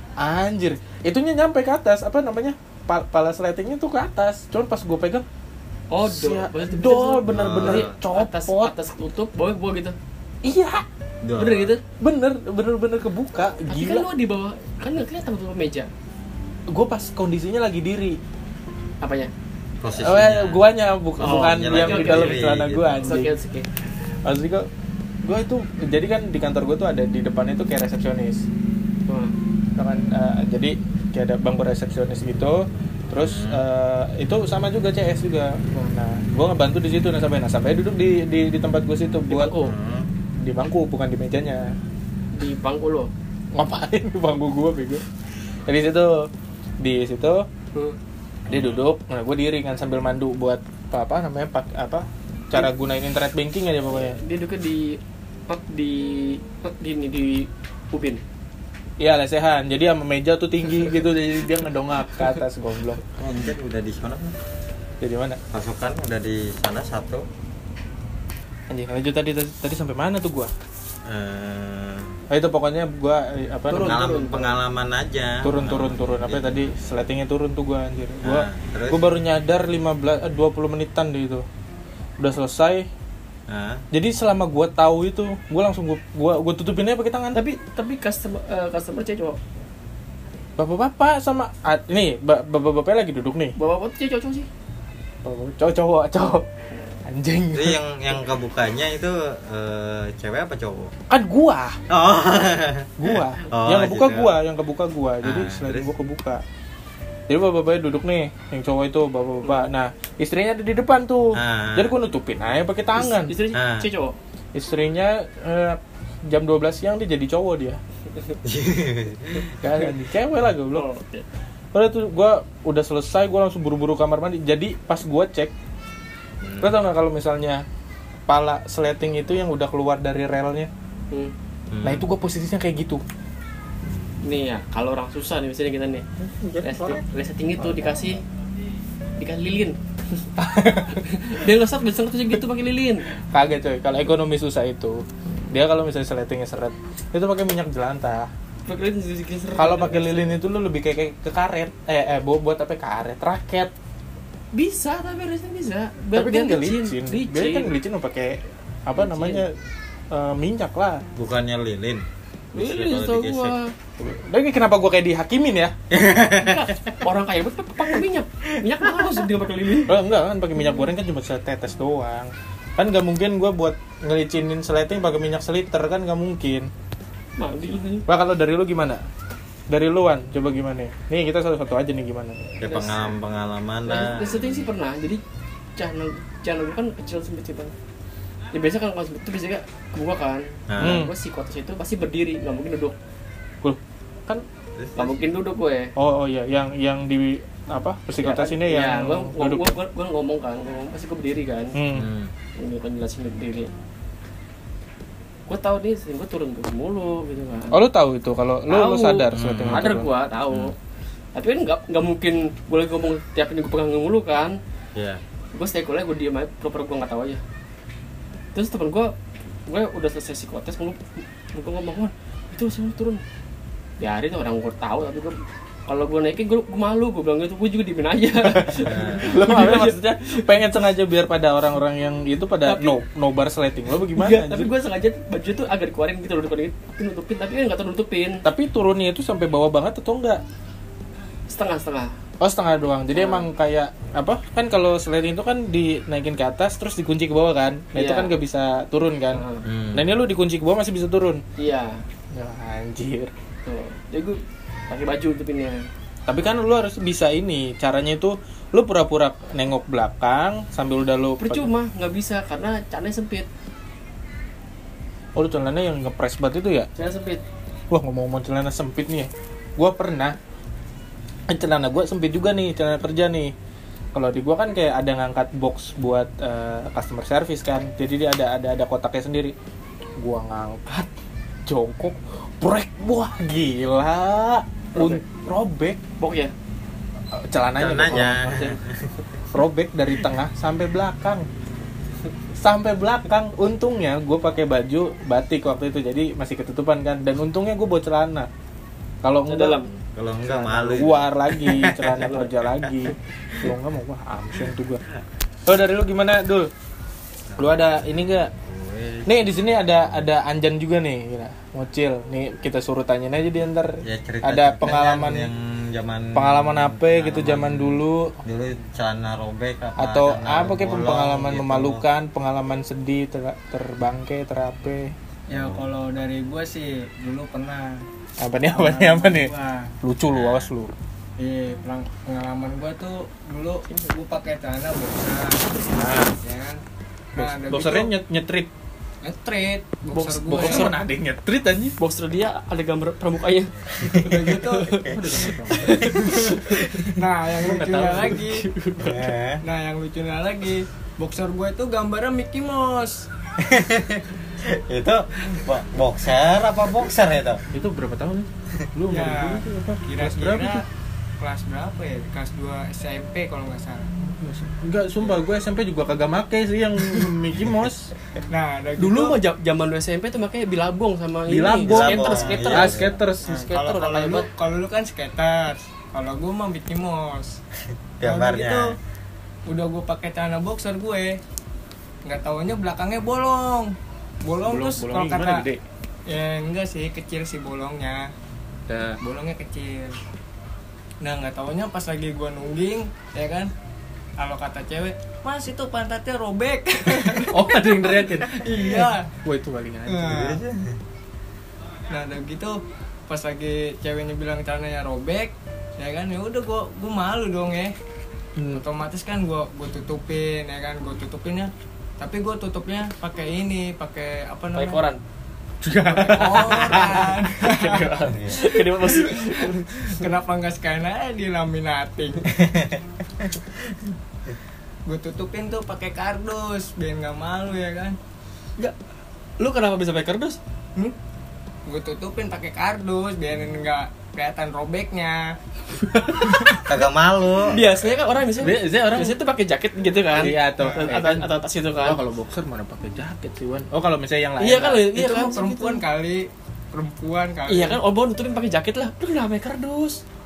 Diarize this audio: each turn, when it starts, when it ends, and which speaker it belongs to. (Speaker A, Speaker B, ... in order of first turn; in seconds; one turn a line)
Speaker A: 0.2-5.2
Speaker B: 5.9-9.9
Speaker A: 6.0-8.7
Speaker C: 7.3-7.9
Speaker A: 10.4-10.8
Speaker C: 11.2-11.7
Speaker B: 11.3-11.8
Speaker A: 11.9-14.1
Speaker B: 13.7-15.9
Speaker A: 16.7-18.2
Speaker B: 19.0-19.3
Speaker C: 19.8-20.6
Speaker A: 20.0-23.3
Speaker B: 21.2-22.4
Speaker C: 21.2-23.2
Speaker B: 23.0-23.7
Speaker A: 24.2-24.7
Speaker A: 25.2-28.4
Speaker B: 29.1-29.3
Speaker A: 29.8-32.6
Speaker A: 33.1-39.5
Speaker C: 33.2-33.6
Speaker B: 39.3-39.7
Speaker C: 39.6-40.1
Speaker A: 40.4-41.6
Speaker B: 42.3-43.1
Speaker A: 43.5-45.0
Speaker A: 45.6-46.3
Speaker A: 46.8-47.5
Speaker C: 48.5-48.8
Speaker A: 48.5-54.2
Speaker B: 53.9-58.2
Speaker A: 59.0-63.1
Speaker C: 63.2-64.3
Speaker A: 65.0-65.4
Speaker C: 65.5-67.2
Speaker A: 68.7-70.5
Speaker C: 71.0-72.1
Speaker A: 72.3-74.0
Speaker B: 73.7-74.6
Speaker C: 73.8-76.6
Speaker A: 75.4-81.4
Speaker C: 78.2-79.0
Speaker A: 82.2-82.9
Speaker C: 83.5-83.8
Speaker A: 83.9-87.4
Speaker B: 87.3-89.4
Speaker A: 90.6-93.5
Speaker B: 93.5-94.5
Speaker A: 95.2-96.5
Speaker A: 97.0-97.8
Speaker C: 97.5-100.9
Speaker A: 101.1-101.8
Speaker C: 101.9-104.3
Speaker A: 103.0-106.4
Speaker C: 105.2-105.9
Speaker A: 107.3-113.3
Speaker C: 111.3-111.9
Speaker B: 112.9-114.2
Speaker C: 113.5-113.8
Speaker A: 114.5-117.8
Speaker C: 118.4-119.5
Speaker A: 119.6-120.8
Speaker B: 120.7-121.2
Speaker A: 121.7-125.5
Speaker C: 126.4-126.8
Speaker A: 126.6-127.6
Speaker A: 128.3-130.7
Speaker C: 131.7-132.0
Speaker A: 131.8-133.0
Speaker B: 134.2-136.0
Speaker A: 136.4-137.0
Speaker B: 136.6-138.2
Speaker B: 139.2-140.3
Speaker A: 140.4-141.3
Speaker B: 140.9-143.1
Speaker A: 143.3-148.3
Speaker B: 148.7-150.3
Speaker A: 149.6-153.7
Speaker B: 154.5-157.7
Speaker A: 156.1-159.5
Speaker B: 158.9-159.4
Speaker A: 160.1-161.0
Speaker C: 161.2-163.6
Speaker B: 162.5-163.7
Speaker A: 164.0-165.7
Speaker C: 165.9-166.7
Speaker B: 166.3-169.9
Speaker C: 168.8-169.2
Speaker A: 169.9-176.7
Speaker B: 170.6-170.9
Speaker B: 177.4-178.1
Speaker A: 178.1-179.0
Speaker A: 179.7-182.6
Speaker C: 182.6-184.7
Speaker B: 182.7-183.1
Speaker B: 183.8-185.2
Speaker B: 185.8-187.7
Speaker B: 188.5-192.9
Speaker C: 190.7-191.0
Speaker A: 190.8-191.1
Speaker C: 194.8-195.2
Speaker B: 194.9-195.9
Speaker A: 195.9-199.8
Speaker B: 198.2-201.8
Speaker A: 201.7-202.1
Speaker C: 201.9-202.3
Speaker B: 202.6-203.7
Speaker B: 205.5-207.8
Speaker A: 207.7-210.1
Speaker B: 208.7-210.8
Speaker C: 209.3-209.9
Speaker B: 211.3-214.6
Speaker C: 214.9-215.2
Speaker B: 215.5-217.4
Speaker B: 218.5-219.1
Speaker B: 219.7-221.0
Speaker B: 221.5-223.2
Speaker B: 224.0-230.4
Speaker A: 228.5-234.7
Speaker C: 228.8-229.3
Speaker B: 232.6-232.9
Speaker B: 234.1-238.4
Speaker A: 238.4-240.4
Speaker B: 241.5-242.1
Speaker A: 242.4-249.4
Speaker B: 243.1-243.5
Speaker B: 247.9-248.3
Speaker B: 249.3-249.6
Speaker C: 249.7-250.1
Speaker A: 249.9-251.4
Speaker B: 251.6-252.0
Speaker A: 252.3-253.3
Speaker B: 253.6-254.4
Speaker B: 254.9-255.8
Speaker A: 256.3-261.7
Speaker B: 261.4-263.5
Speaker A: 265.4-266.9
Speaker B: 266.9-267.4
Speaker A: 267.9-270.4
Speaker A: 271.5-273.5
Speaker A: 274.1-279.5
Speaker A: 280.2-281.1
Speaker A: 281.6-286.0
Speaker B: 284.9-285.2
Speaker B: 286.2-286.5
Speaker A: 287.3-288.6
Speaker C: 287.8-289.0
Speaker B: 288.4-288.8
Speaker A: 289.5-291.4
Speaker A: 292.6-298.5
Speaker A: 299.2-299.8
Speaker B: 299.5-299.9
Speaker C: 299.9-302.9
Speaker A: 300.4-305.0
Speaker B: 302.2-302.5
Speaker A: 305.6-306.7
Speaker C: 307.5-310.2
Speaker A: 307.6-308.5
Speaker A: 309.2-315.5
Speaker C: 314.0-322.0
Speaker A: 316.3-318.4
Speaker A: 320.0-325.1
Speaker D: 325.5-328.0
Speaker C: 325.5-325.9
Speaker A: 328.4-330.9
Speaker D: 328.6-329.9
Speaker C: 330.3-330.7
Speaker D: 331.4-336.8
Speaker A: 335.9-336.3
Speaker D: 337.4-338.1
Speaker A: 337.4-338.7
Speaker D: 339.2-340.9
Speaker A: 340.1-341.9
Speaker B: 342.0-347.0
Speaker D: 344.2-345.6
Speaker A: 345.2-345.9
Speaker D: 346.1-346.5
Speaker D: 347.0-348.6
Speaker A: 347.6-348.4
Speaker B: 348.5-349.3
Speaker C: 349.0-349.6
Speaker D: 349.6-353.3
Speaker C: 353.6-357.6
Speaker A: 357.7-360.8
Speaker D: 359.1-360.8
Speaker D: 361.4-364.1
Speaker A: 364.2-368.1
Speaker D: 368.5-369.4
Speaker B: 369.0-374.5
Speaker A: 371.5-373.5
Speaker C: 371.8-373.2
Speaker D: 373.4-377.6
Speaker C: 378.2-378.9
Speaker D: 378.2-378.9
Speaker D: 379.7-381.4
Speaker D: 382.2-385.6
Speaker A: 384.6-385.8
Speaker D: 386.3-388.3
Speaker A: 388.9-389.2
Speaker D: 389.2-390.1
Speaker D: 391.2-393.7
Speaker D: 394.4-399.3
Speaker A: 397.1-400.3
Speaker D: 400.1-400.6
Speaker C: 400.2-400.9
Speaker D: 402.1-407.9
Speaker A: 408.6-408.8
Speaker D: 408.7-415.0
Speaker B: 414.8-415.2
Speaker A: 415.8-418.4
Speaker D: 416.0-418.2
Speaker C: 418.2-418.6
Speaker B: 418.4-420.2
Speaker D: 420.1-422.4
Speaker C: 422.5-423.0
Speaker D: 425.1-428.2
Speaker B: 429.6-430.6
Speaker D: 431.9-435.4
Speaker A: 436.0-436.9
Speaker C: 436.8-437.9
Speaker B: 437.7-442.2
Speaker A: 438.6-439.4
Speaker A: 440.4-441.5
Speaker A: 442.0-445.1
Speaker B: 444.6-446.0
Speaker D: 445.1-448.0
Speaker B: 447.7-450.2